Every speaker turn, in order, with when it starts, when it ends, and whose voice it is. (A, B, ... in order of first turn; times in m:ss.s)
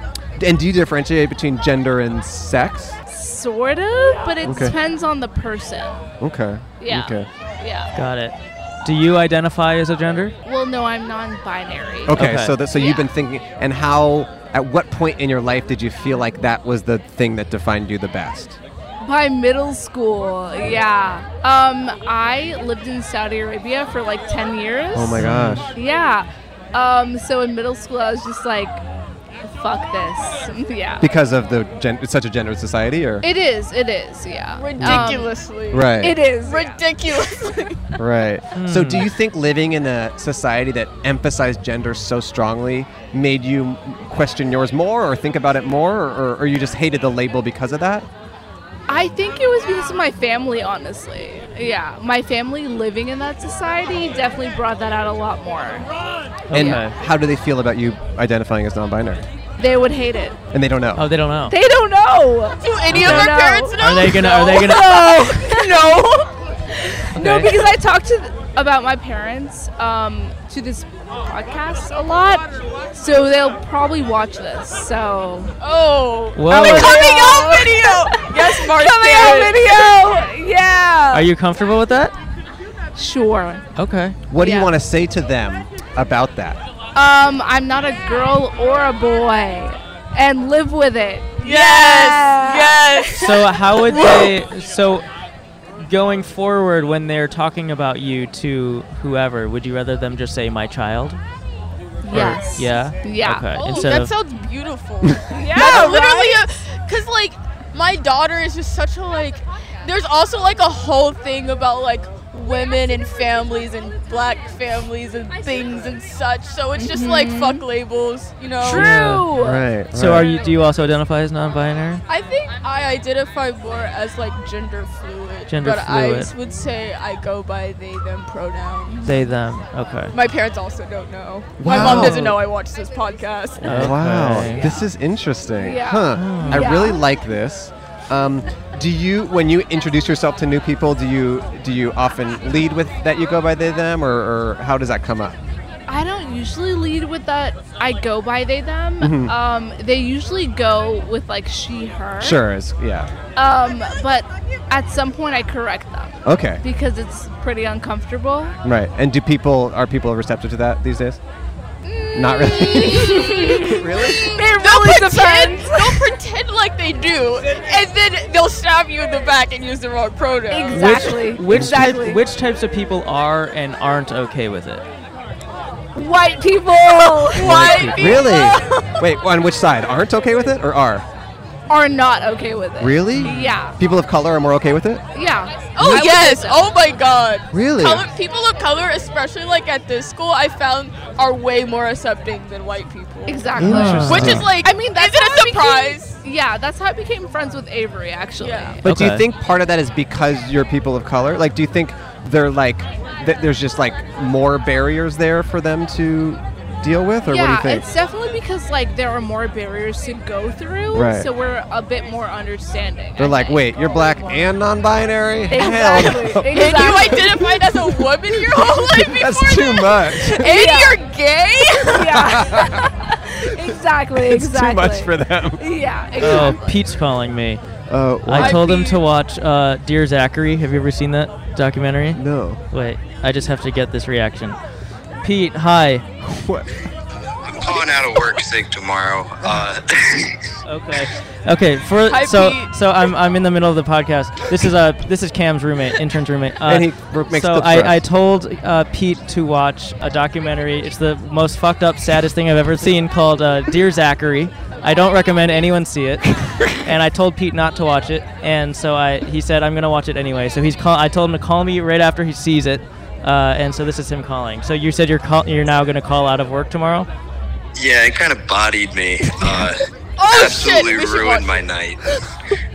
0:00.4-0:03.0 A
0:03.1-0:06.0 B
0:04.4-0:04.8 A
0:06.2-0:07.3 A
0:06.8-0:07.9 B
0:07.9-0:10.4 C
0:10.4-0:12.1 B
0:12.1-0:18.6 A
0:12.1-0:12.6 C
0:12.7-0:13.1 B
0:19.0-0:28.8 B
0:24.9-0:25.7 A
0:25.2-0:25.6 C
0:29.4-0:31.0 B
0:31.0-0:33.3 A
0:33.2-0:37.5 B
0:34.6-0:37.8 D
0:34.8-0:35.1 A
0:35.7-0:36.2 A
0:38.0-0:48.1 A
0:38.6-0:39.1 C
0:48.9-0:55.9 B
0:56.5-0:57.0 C
0:56.5-0:59.2 A
0:59.6-1:00.4 B
1:00.5-1:01.0 A
1:01.0-1:01.6 C
1:01.5-1:03.8 B
1:02.6-1:06.1 D
1:02.9-1:05.2 C
1:04.6-1:06.1 B
1:07.1-1:07.5 C
1:07.1-1:15.5 B
1:15.6-1:20.0 D
1:16.4-1:16.9 C
1:16.5-1:21.3 B
1:21.1-1:22.1 C
1:23.0-1:23.6 B
1:23.8-1:24.2 C
1:24.3-1:26.6 A
1:24.4-1:24.7 B
1:27.0-1:32.8 B
1:31.4-1:34.3 D
1:33.2-1:35.1 C
1:35.8-1:41.2 C
1:42.0-1:43.9 B
1:42.1-1:44.1 C
1:43.5-1:58.9 D
1:45.3-1:46.4 B
1:56.8-1:57.6 B
1:58.6-1:59.7 B
1:58.7-1:59.3 C
1:59.3-2:00.3 A
1:59.9-2:02.0 C
2:02.1-2:09.1 D
2:05.5-2:06.3 C
2:09.0-2:10.1 C
2:10.1-2:13.9 D
2:11.6-2:12.3 A
2:11.6-2:12.4 C
2:13.6-2:14.8 C
2:13.6-2:25.4 A
2:15.6-2:17.0 B
2:16.1-2:16.8 C
2:25.9-2:32.4 B
2:29.0-2:29.3 A
2:32.2-2:33.1 A
2:33.4-2:38.6 B
2:36.2-2:36.6 A
2:38.6-2:41.2 A
2:41.8-2:46.1 B
2:42.1-2:44.4 A
2:44.0-2:51.0 D
2:50.5-2:52.2 B
2:50.7-2:54.8 C
2:51.5-2:51.8 A
2:56.0-2:58.6 B
2:57.4-2:58.5 D
2:57.4-3:01.1 A
3:01.7-3:03.8 B
3:02.8-3:05.0 A
3:03.1-3:03.6 C
3:05.1-3:06.7 B
3:05.8-3:13.5 D
3:05.8-3:06.1 A
3:07.5-3:08.1 A
3:13.3-3:18.8 B
3:13.6-3:14.5 A
3:13.6-3:14.5 C
3:14.0-3:16.2 D
3:18.4-3:18.8 D
3:18.8-3:27.9 A
3:18.8-3:19.2 C
3:27.3-3:33.8 B
3:30.9-3:31.3 A
3:33.2-3:40.6 A
3:35.5-3:37.4 B
3:36.5-3:41.9 D
3:40.4-3:41.0 B
3:41.9-3:46.6 B
3:42.1-3:42.9 A
3:44.1-3:45.6 A
3:46.2-3:47.6 C
3:46.2-3:46.5 A
3:47.9-3:48.6 A
3:48.2-3:54.6 C
3:48.4-3:48.9 D
3:52.1-3:52.6 A
3:55.2-3:56.1 C
3:56.2-3:56.7 A
3:57.5-4:00.4 E
4:00.6-4:27.1 C
4:02.1-4:02.7 D
4:06.6-4:08.0 A
4:27.8-4:32.2 E
4:30.2-4:31.5 D